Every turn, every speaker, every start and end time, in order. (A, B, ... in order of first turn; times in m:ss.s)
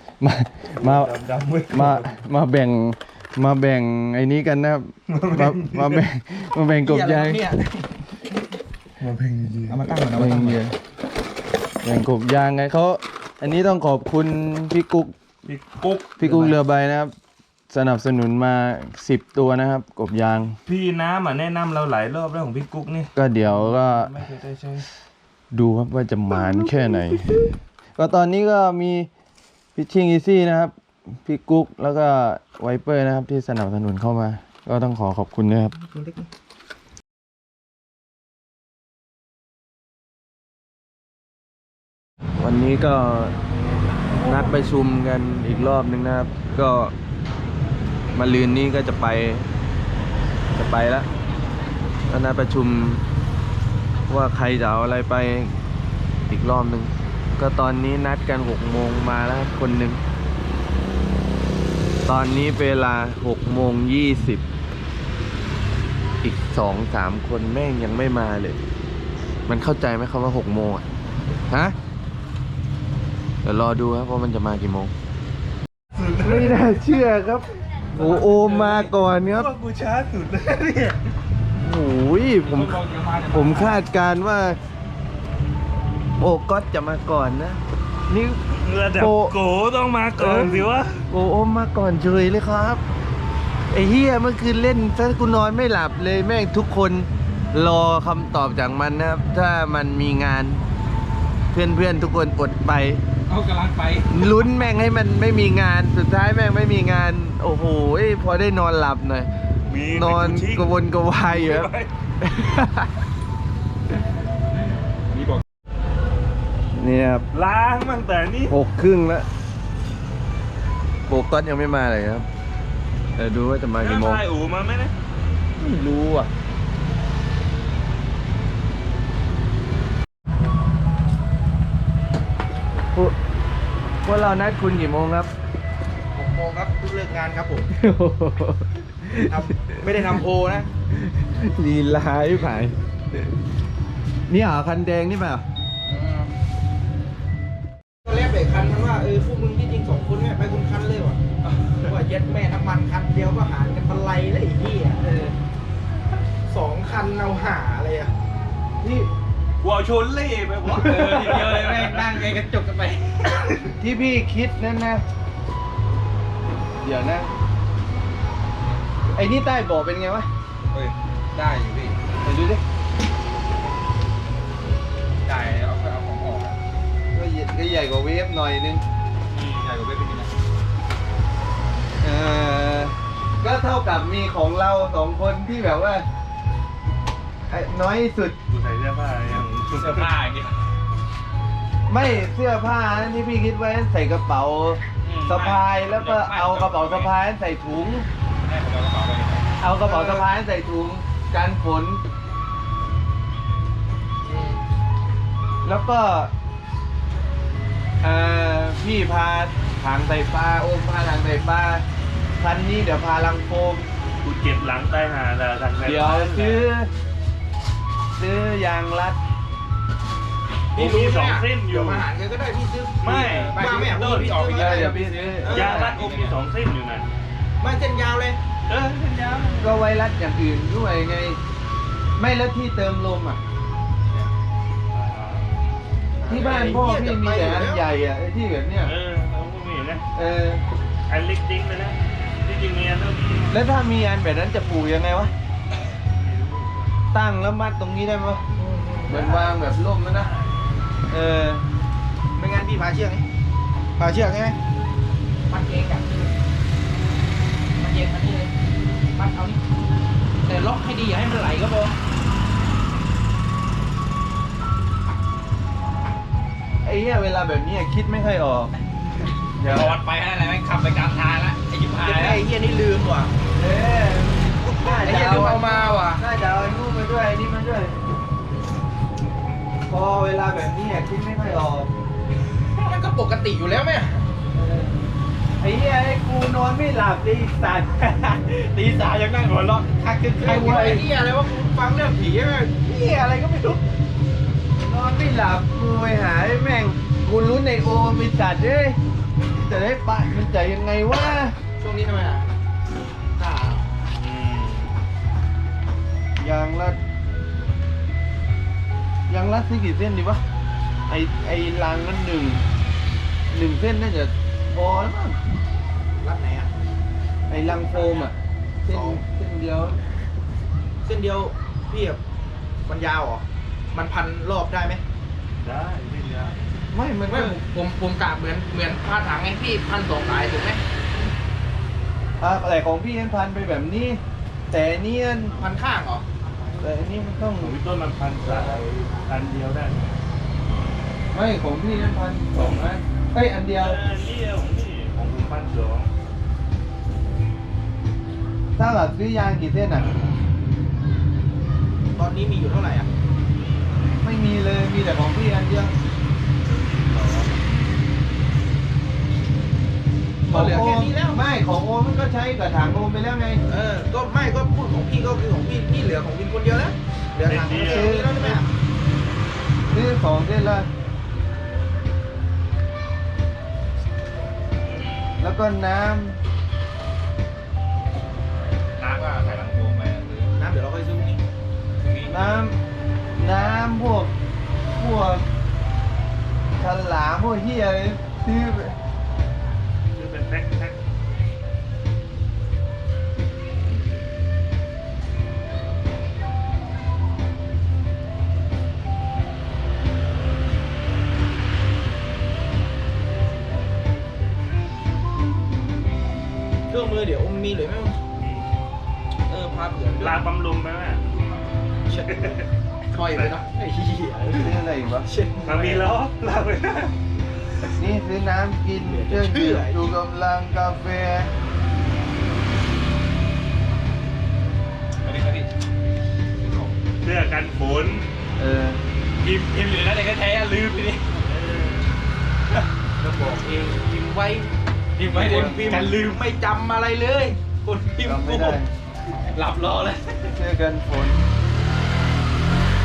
0:00.2-0:01.1 A
0:00.8-0:02.1 B
0:01.7-0:07.4 A
0:05.1-0:06.0 B
0:06.8-0:07.9 C
0:09.0-0:09.9 B
0:09.7-0:10.6 C
0:10.1-0:10.8 A
0:11.8-0:15.2 A
0:15.4-0:16.6 B
0:16.2-0:17.1 A
0:17.7-0:20.6 A
0:20.7-0:24.9 B
0:23.2-0:24.1 A
0:25.5-0:27.3 A
0:28.0-0:29.1 A
0:29.8-0:30.7 A
0:31.2-0:35.8 A
0:35.8-0:36.2 C
0:42.4-0:43.3 A
0:44.2-0:46.9 A
0:44.2-0:44.5 C
0:48.1-0:49.5 A
0:50.5-0:51.1 A
0:52.1-0:53.0 A
0:54.1-0:55.6 A
0:56.3-1:00.0 A
1:02.1-1:04.4 A
1:06.2-1:08.6 A
1:09.5-1:10.8 A
1:11.5-1:11.8 A
1:13.4-1:14.9 A
1:15.9-1:16.7 B
1:16.2-1:19.5 A
1:19.2-1:21.0 B
1:21.6-1:24.6 A
1:22.6-1:23.5 B
1:26.2-1:28.4 A
1:28.5-1:31.0 B
1:29.0-1:29.3 A
1:30.2-1:32.8 A
1:33.7-1:40.6 A
1:41.5-1:43.0 A
1:43.3-1:44.1 C
1:43.4-1:43.8 D
1:44.1-1:49.3 A
1:49.7-1:51.9 B
1:49.9-1:51.7 A
1:52.2-1:53.0 A
1:56.7-1:57.2 A
1:57.3-1:58.6 B
1:58.5-1:59.2 A
2:01.1-2:02.3 A
2:03.2-2:04.2 A
2:03.8-2:04.9 B
2:05.6-2:06.3 A
2:14.0-2:15.3 A
2:16.1-2:17.7 C
2:17.7-2:19.8 A
2:19.3-2:20.7 C
2:20.9-2:22.8 A
2:24.3-2:25.4 A
2:25.9-2:26.3 C
2:28.0-2:31.2 C
2:31.8-2:35.3 C
2:36.4-2:38.1 C
2:38.8-2:39.1 A
2:39.6-2:42.3 B
2:40.7-2:43.0 C
2:40.8-2:42.3 D
2:43.8-2:45.0 A
2:46.8-2:47.3 A
2:49.1-2:50.3 A
2:51.4-2:52.0 D
2:51.4-2:51.9 C
2:52.2-2:52.6 A
2:55.2-2:56.5 D
2:55.5-2:56.5 C
2:57.1-2:58.8 A
2:59.3-2:59.6 B
2:59.7-3:00.3 D
3:02.0-3:06.0 A
3:07.5-3:08.4 A
3:08.5-3:10.2 B
3:09.8-3:10.6 D
3:11.9-3:18.1 A
3:15.1-3:15.5 D
3:15.9-3:16.9 B
3:16.2-3:17.1 D
3:18.5-3:19.4 D
3:19.6-3:22.0 A
3:19.8-3:20.2 C
3:24.2-3:24.6 C
3:25.6-3:26.3 A
3:28.0-3:31.8 A
3:32.4-3:33.9 A
3:34.2-3:36.6 B
3:35.8-3:36.9 A
3:38.2-3:39.2 A
3:40.7-3:46.3 C
3:40.8-3:42.0 B
3:43.0-3:44.6 B
3:44.5-3:45.9 A
3:44.6-3:45.1 D
3:45.5-3:47.1 B
3:47.6-3:48.4 C
3:48.7-3:49.7 B
3:49.6-3:51.4 A
3:52.2-3:53.4 A
3:54.9-3:55.4 B
3:56.2-3:57.8 C
3:56.2-3:58.9 A
3:58.8-4:00.0 B
4:00.1-4:00.6 A
4:01.1-4:03.6 B
4:03.5-4:05.3 A
4:06.2-4:06.9 B
4:07.1-4:08.4 A
4:08.6-4:09.5 C
4:09.1-4:10.3 A
4:10.1-4:10.8 B
4:11.1-4:11.6 A
4:12.4-4:13.2 C
4:14.0-4:14.6 C
4:15.5-4:16.3 C
4:17.8-4:18.5 C
4:19.1-4:19.6 C
4:20.4-4:22.0 C
4:26.8-4:28.7 A
4:29.6-4:30.0 A
4:29.7-4:32.4 D
4:31.9-4:33.3 C
4:33.6-4:38.0 A
4:34.8-4:36.2 C
4:39.9-4:41.9 A
4:42.8-4:44.2 C
4:44.5-4:44.9 A
4:45.6-4:48.2 A
4:48.3-4:50.8 D
4:50.4-4:53.8 C
4:50.4-4:51.0 A
4:54.8-4:59.0 A
4:59.6-5:01.6 A
5:01.8-5:02.5 C
5:03.4-5:03.8 C
5:04.1-5:04.9 B
5:06.4-5:07.0 A
5:09.3-5:10.4 A
5:11.1-5:12.6 A
5:13.5-5:15.4 A
5:16.2-5:16.7 C
5:17.5-5:20.0 A
5:17.8-5:18.3 C
5:18.9-5:19.2 C
5:21.0-5:22.2 C
5:22.9-5:25.0 C
5:25.6-5:26.6 B
5:26.9-5:27.6 A
5:27.3-5:30.8 C
5:32.4-5:35.6 A
5:35.5-5:36.2 C
5:36.8-5:37.8 A
5:37.6-5:40.2 B
5:38.4-5:38.8 A
5:41.3-5:44.0 A
5:43.8-5:46.1 B
5:48.8-5:50.1 A
5:52.2-5:53.1 C
5:54.2-5:55.9 A
5:56.7-5:57.5 B
6:00.5-6:01.4 C
6:00.5-6:03.6 A
6:03.7-6:08.7 C
6:07.4-6:08.6 B
6:07.8-6:08.6 A
6:09.9-6:10.9 A
6:14.8-6:15.4 B
6:15.4-6:16.4 A
6:19.0-6:20.5 D
6:20.3-6:21.4 C
6:22.0-6:22.4 D
6:22.3-6:22.8 A
6:23.4-6:24.3 A
6:25.0-6:25.4 A
6:26.8-6:28.9 A
6:30.2-6:31.0 B
6:46.9-6:48.2 C
6:49.4-6:50.4 C
6:50.2-6:51.2 B
6:52.1-6:52.6 C
6:52.1-6:52.7 B
6:53.1-6:54.7 C
6:53.2-6:53.5 B
6:54.5-6:55.3 A
6:55.2-6:56.1 C
6:55.6-6:57.2 B
6:57.9-7:01.5 A
6:59.0-7:00.1 C
7:05.2-7:05.7 D
7:06.6-7:06.9 C
7:07.2-7:08.2 B
7:08.6-7:09.0 A
7:09.4-7:11.2 D
7:11.4-7:12.0 B
7:13.2-7:18.8 C
7:15.2-7:16.3 D
7:15.3-7:16.0 B
7:15.3-7:16.1 A
7:18.2-7:18.9 A
7:19.5-7:20.4 D
7:20.5-7:21.4 A